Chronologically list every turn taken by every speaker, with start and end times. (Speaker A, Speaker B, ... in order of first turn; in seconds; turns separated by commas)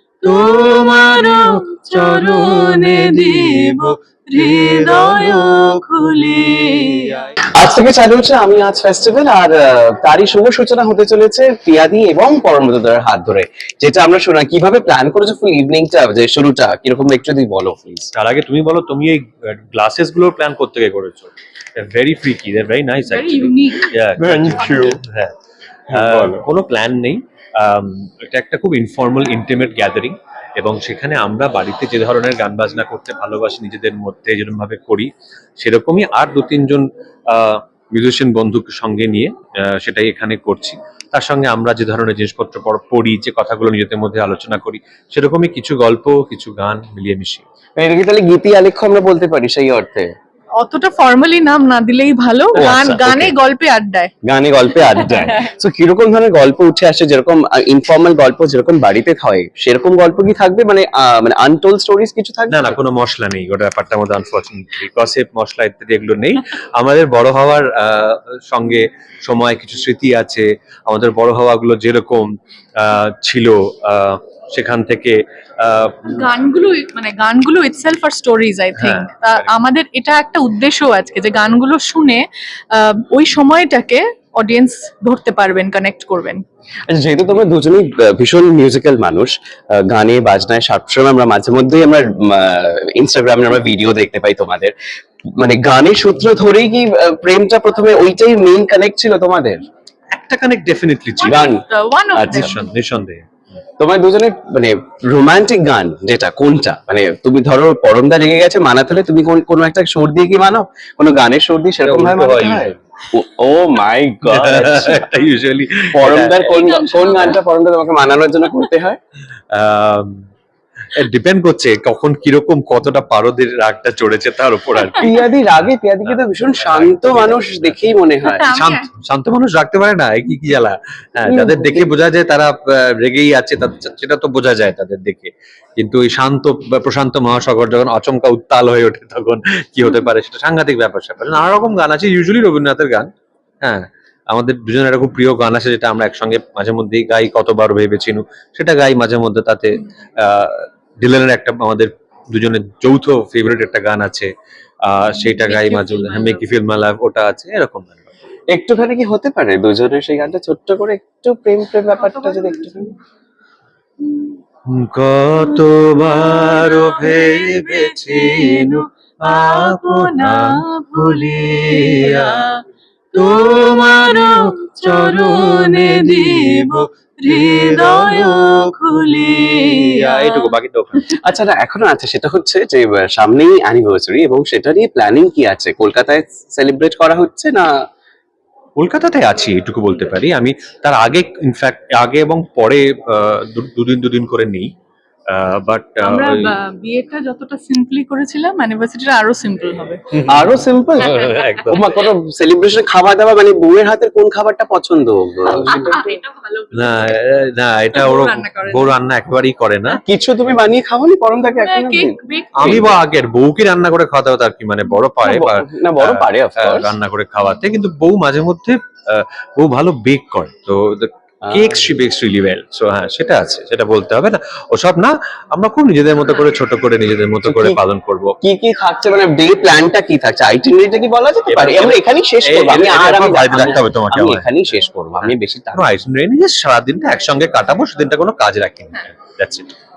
Speaker A: 0.2-7.3, Speaker B: 0.2-3.4, Speaker B: 4.4-5.5, Speaker C: 7.5-18.1, Speaker B: 18.1-25.3, Speaker A: 23.0-24.9, Speaker B: 25.9-47.4, Speaker C: 47.8-50.1, Speaker A: 50.6-54.1, Speaker B: 52.5-53.3, Speaker C: 52.6-52.9, Speaker C: 54.2-62.8, Speaker A: 55.0-55.3, Speaker B: 62.5-76.2, Speaker A: 76.1-86.4, Speaker B: 78.8-79.5, Speaker C: 86.9-94.7, Speaker C: 95.3-99.6, Speaker B: 100.1-101.5, Speaker A: 101.2-102.7, Speaker C: 101.2-102.6, Speaker B: 102.2-103.2, Speaker C: 103.8-115.1, Speaker B: 111.8-112.7, Speaker B: 114.3-116.5, Speaker C: 115.9-119.0, Speaker A: 116.4-117.4, Speaker B: 119.5-120.2, Speaker B: 120.9-125.1, Speaker C: 125.0-128.5, Speaker B: 125.6-127.9, Speaker A: 128.2-128.9, Speaker B: 128.5-143.1, Speaker C: 131.2-131.9, Speaker B: 143.6-154.3, Speaker B: 154.8-158.1, Speaker A: 155.1-156.5, Speaker C: 158.5-162.9, Speaker A: 162.0-162.9, Speaker B: 164.7-172.4, Speaker A: 166.0-172.5, Speaker B: 173.2-178.6, Speaker A: 173.2-180.4, Speaker B: 179.4-181.2, Speaker C: 181.1-187.7, Speaker B: 188.8-194.7, Speaker B: 195.3-196.3, Speaker A: 196.0-200.0, Speaker C: 200.2-206.2, Speaker B: 201.0-202.1, Speaker A: 201.1-201.6, Speaker A: 205.7-207.1, Speaker B: 206.7-210.0, Speaker A: 207.9-209.0, Speaker C: 210.0-212.9, Speaker A: 211.6-212.9, Speaker B: 212.6-228.3, Speaker C: 215.2-216.9, Speaker C: 221.4-221.9, Speaker C: 227.4-227.8, Speaker C: 228.4-235.9, Speaker B: 231.5-234.5, Speaker B: 235.2-239.7